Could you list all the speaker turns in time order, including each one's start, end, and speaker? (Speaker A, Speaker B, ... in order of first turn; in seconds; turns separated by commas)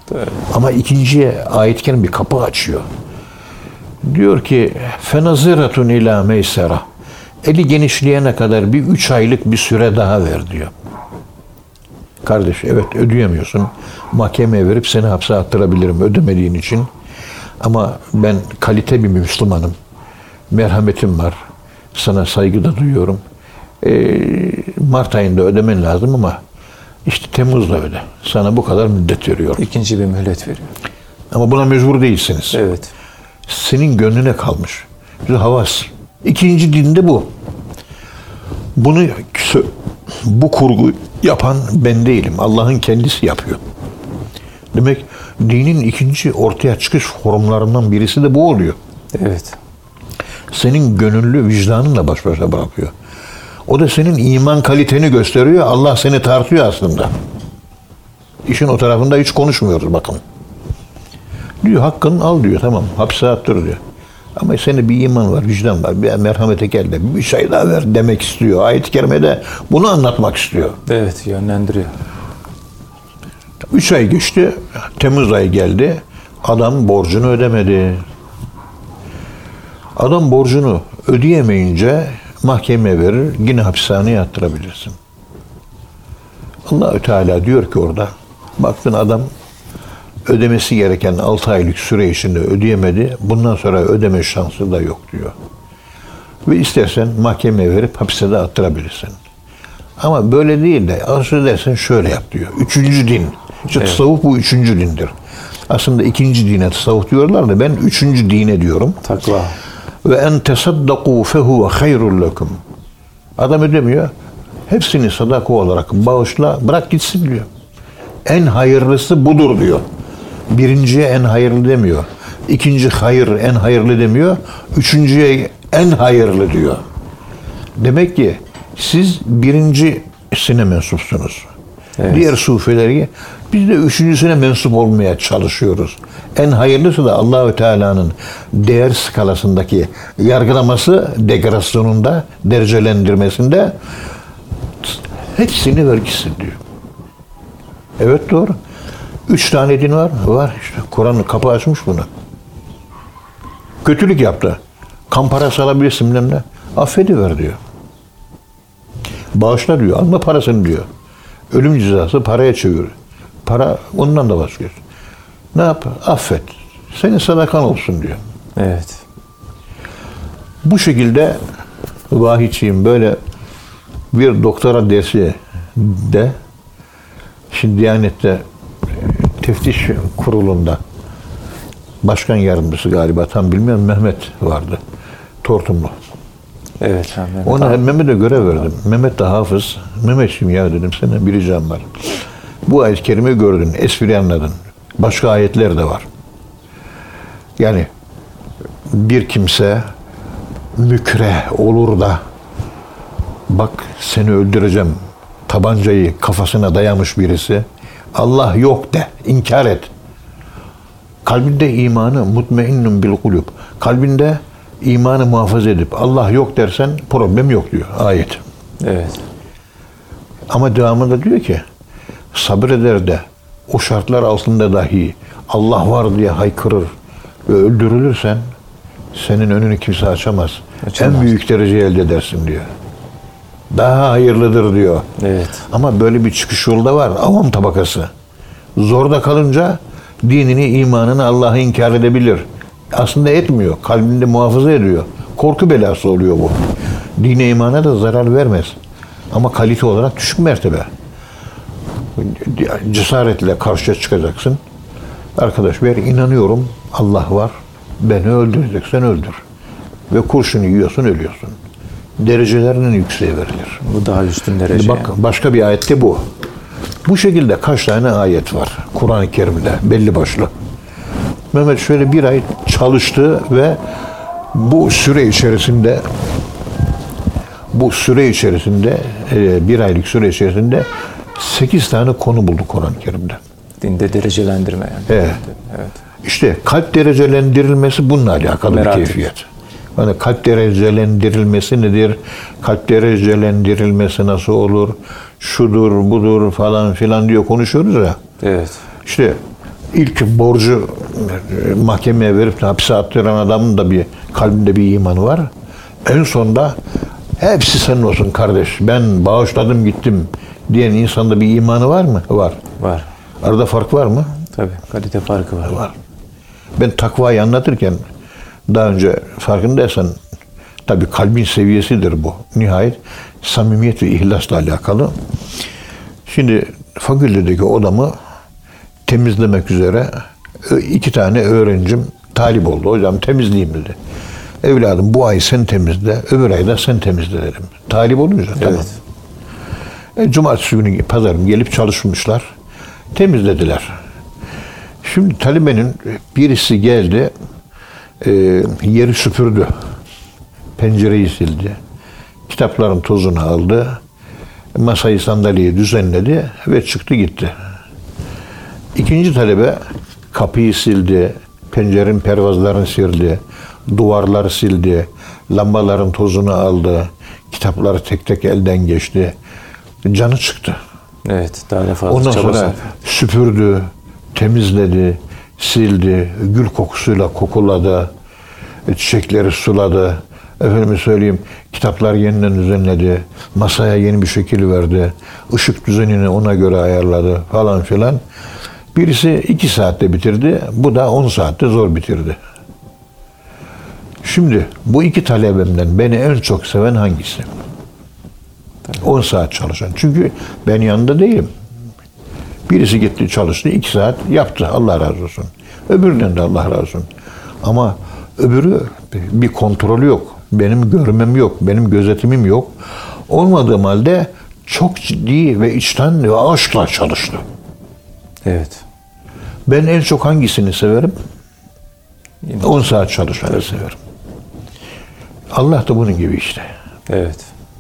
Speaker A: 0.1-0.4, Speaker B: 0.5-2.9, Speaker B: 4.0-6.9, Speaker B: 7.4-10.7, Speaker B: 12.2-16.9, Speaker B: 17.6-19.8, Speaker B: 20.5-21.4, Speaker B: 21.9-23.2, Speaker B: 23.8-26.4, Speaker B: 27.1-29.6, Speaker A: 29.6-30.7, Speaker B: 31.3-32.6, Speaker A: 32.5-32.9, Speaker B: 33.5-37.3, Speaker B: 38.8-43.6, Speaker B: 44.7-48.8, Speaker A: 49.1-49.6, Speaker B: 50.5-52.9, Speaker B: 53.7-57.1, Speaker B: 58.5-60.2, Speaker B: 61.6-63.8, Speaker B: 64.3-70.8, Speaker A: 70.9-72.0, Speaker B: 73.7-78.0, Speaker B: 80.0-85.0, Speaker B: 86.7-89.3, Speaker B: 90.2-95.4, Speaker B: 96.5-99.2, Speaker B: 100.0-105.1, Speaker A: 103.8-104.0, Speaker B: 105.7-109.0, Speaker A: 109.0-109.6, Speaker B: 110.0-112.6, Speaker B: 113.4-114.1, Speaker B: 114.7-117.5, Speaker B: 118.3-119.8, Speaker B: 120.5-126.8, Speaker B: 127.8-131.5, Speaker A: 132.0-132.3, Speaker B: 132.1-143.8, Speaker B: 144.8-146.6, Speaker B: 148.0-148.6, Speaker B: 149.3-152.1, Speaker B: 153.8-154.6, Speaker B: 155.1-157.6, Speaker B: 159.3-160.9, Speaker B: 161.5-164.8, Speaker B: 165.5-168.2, Speaker A: 168.6-169.0, Speaker B: 170.6-171.4, Speaker B: 172.1-173.2, Speaker B: 174.1-176.4, Speaker B: 177.5-180.8, Speaker B: 182.0-184.8, Speaker B: 185.4-185.9, Speaker A: 186.8-187.8, Speaker B: 187.4-196.1, Speaker B: 197.6-197.9, Speaker B: 198.9-199.9, Speaker B: 200.8-202.2, Speaker B: 203.5-209.9, Speaker B: 211.2-218.4, Speaker A: 218.8-219.2, Speaker B: 220.5-221.6, Speaker B: 222.3-226.9, Speaker B: 227.5-228.5, Speaker B: 229.1-232.7, Speaker A: 230.8-231.4, Speaker B: 233.7-235.1, Speaker A: 235.2-235.7, Speaker B: 235.7-238.1, Speaker B: 238.8-248.8, Speaker B: 249.3-250.9, Speaker B: 252.2-254.6, Speaker B: 255.4-259.4, Speaker B: 260.1-261.6, Speaker B: 262.2-263.8, Speaker A: 263.8-265.1, Speaker B: 264.7-266.3, Speaker B: 267.1-270.5, Speaker B: 271.5-273.8, Speaker B: 274.5-276.2, Speaker B: 277.7-283.4, Speaker A: 283.8-286.0, Speaker B: 285.1-285.4, Speaker B: 286.2-298.2, Speaker A: 288.7-289.3, Speaker A: 298.4-298.8, Speaker B: 299.1-299.4, Speaker B: 299.9-305.5, Speaker B: 306.1-306.8, Speaker B: 307.4-312.6, Speaker A: 312.8-313.1, Speaker B: 313.4-314.5, Speaker A: 314.5-315.9, Speaker B: 316.8-318.0, Speaker B: 318.7-320.2, Speaker B: 320.9-325.1, Speaker B: 326.3-328.2, Speaker B: 329.1-334.0, Speaker B: 334.6-338.9, Speaker A: 338.6-339.0, Speaker B: 340.2-342.5, Speaker B: 343.1-344.0, Speaker B: 345.0-347.3, Speaker B: 348.2-349.7, Speaker B: 350.8-351.8, Speaker B: 352.5-354.0, Speaker B: 354.8-357.5, Speaker B: 358.9-359.8, Speaker B: 360.3-369.4, Speaker B: 370.1-370.8, Speaker A: 371.2-372.9, Speaker B: 372.1-378.1, Speaker B: 378.9-388.2, Speaker B: 388.9-392.4, Speaker B: 394.2-397.5, Speaker B: 398.9-401.5, Speaker B: 402.7-407.1, Speaker B: 407.6-417.4, Speaker A: 418.4-418.8, Speaker B: 419.7-421.2, Speaker B: 422.6-424.0, Speaker B: 425.5-426.7, Speaker A: 427.1-427.5